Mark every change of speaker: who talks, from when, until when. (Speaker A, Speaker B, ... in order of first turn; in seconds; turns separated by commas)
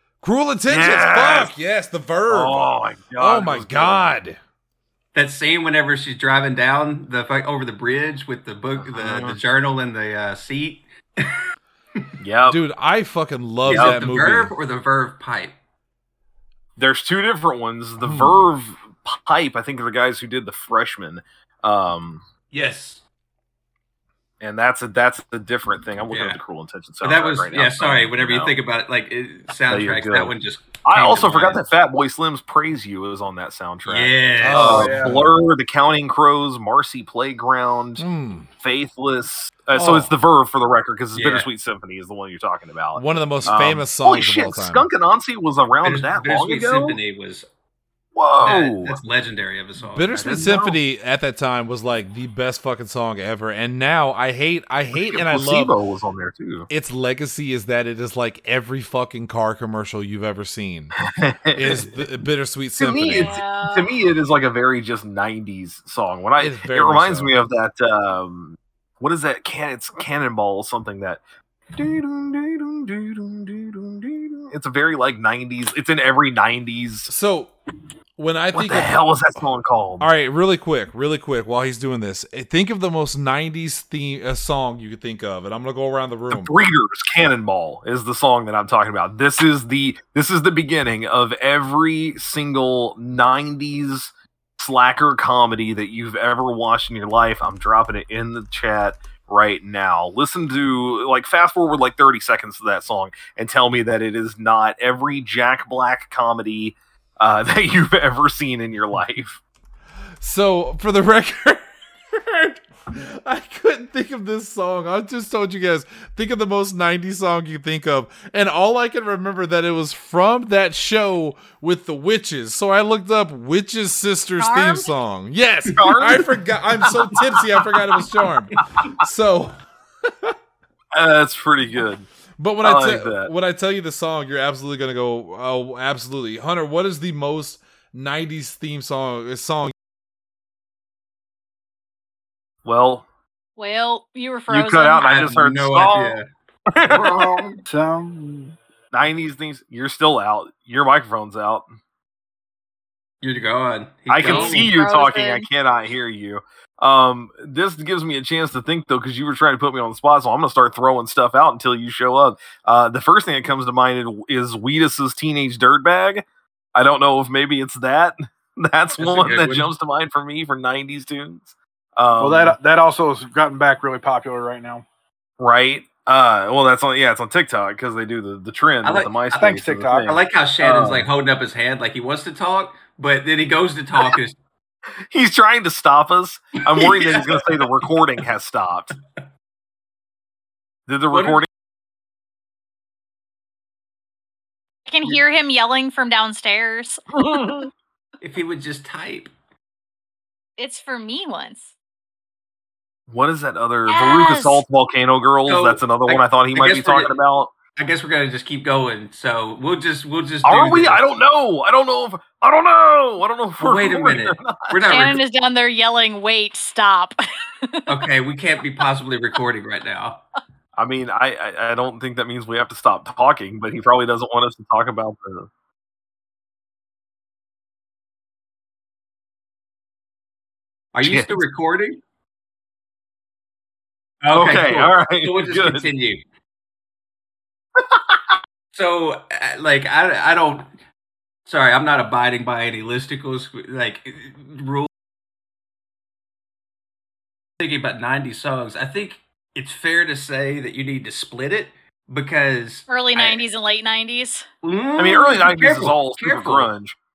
Speaker A: 0.2-4.4, Speaker B: 0.7-1.6, Speaker B: 2.3-4.1, Speaker C: 5.1-11.4, Speaker B: 8.8-9.4, Speaker B: 12.2-12.6, Speaker A: 12.5-14.5, Speaker C: 13.7-15.6, Speaker B: 13.7-14.0, Speaker B: 16.8-22.2, Speaker A: 18.0-18.5, Speaker C: 22.5-23.0, Speaker B: 24.4-28.6, Speaker C: 26.1-26.4, Speaker C: 27.0-31.6, Speaker B: 29.7-38.1, Speaker C: 33.9-35.2, Speaker A: 34.4-35.3, Speaker D: 34.6-35.1, Speaker A: 38.0-38.5, Speaker B: 38.6-47.0, Speaker A: 39.7-40.1, Speaker C: 41.1-41.5, Speaker A: 43.0-44.9, Speaker C: 45.8-47.5, Speaker B: 48.2-49.0, Speaker C: 48.4-50.5, Speaker A: 49.8-55.8, Speaker B: 50.2-50.8, Speaker B: 54.9-56.7, Speaker A: 56.7-61.0, Speaker B: 61.0-62.0, Speaker A: 61.5-63.4, Speaker B: 62.8-71.2, Speaker E: 62.9-63.9, Speaker A: 66.4-67.4, Speaker B: 71.8-77.1, Speaker A: 77.1-77.5, Speaker A: 78.2-79.0, Speaker B: 78.5-80.1, Speaker A: 80.0-86.6, Speaker B: 86.3-109.4, Speaker A: 110.2-130.3, Speaker E: 124.4-124.9, Speaker B: 125.7-126.4, Speaker B: 130.9-132.1, Speaker A: 132.4-139.7, Speaker B: 132.6-133.3, Speaker B: 142.7-143.1, Speaker E: 143.6-145.2, Speaker B: 144.5-146.2, Speaker C: 145.0-146.3, Speaker B: 146.7-147.6, Speaker D: 146.9-148.5, Speaker B: 148.9-151.6, Speaker C: 153.2-154.7, Speaker B: 154.1-166.2, Speaker E: 154.2-155.5, Speaker B: 166.8-172.6, Speaker C: 169.0-169.7, Speaker D: 172.2-174.8, Speaker B: 175.4-181.1, Speaker C: 178.8-179.5, Speaker D: 179.4-180.1, Speaker C: 180.0-184.4, Speaker B: 185.1-189.0, Speaker C: 186.7-187.9, Speaker B: 190.9-191.5, Speaker C: 191.1-191.4, Speaker E: 194.9-197.6, Speaker B: 197.2-197.7, Speaker C: 198.2-199.3, Speaker E: 200.6-201.7, Speaker B: 203.1-207.5, Speaker E: 203.9-204.6, Speaker C: 205.5-207.2, Speaker C: 207.8-211.1, Speaker B: 210.4-215.2, Speaker C: 213.6-215.2, Speaker E: 214.9-218.1, Speaker C: 217.9-220.2, Speaker B: 220.8-225.5, Speaker C: 230.9-232.0, Speaker B: 231.0-231.4, Speaker C: 234.2-236.2, Speaker B: 234.3-235.9, Speaker B: 237.8-238.2, Speaker C: 238.7-240.7, Speaker C: 241.5-244.9, Speaker C: 247.6-253.4, Speaker E: 252.9-254.5, Speaker C: 254.6-256.7, Speaker B: 255.0-257.0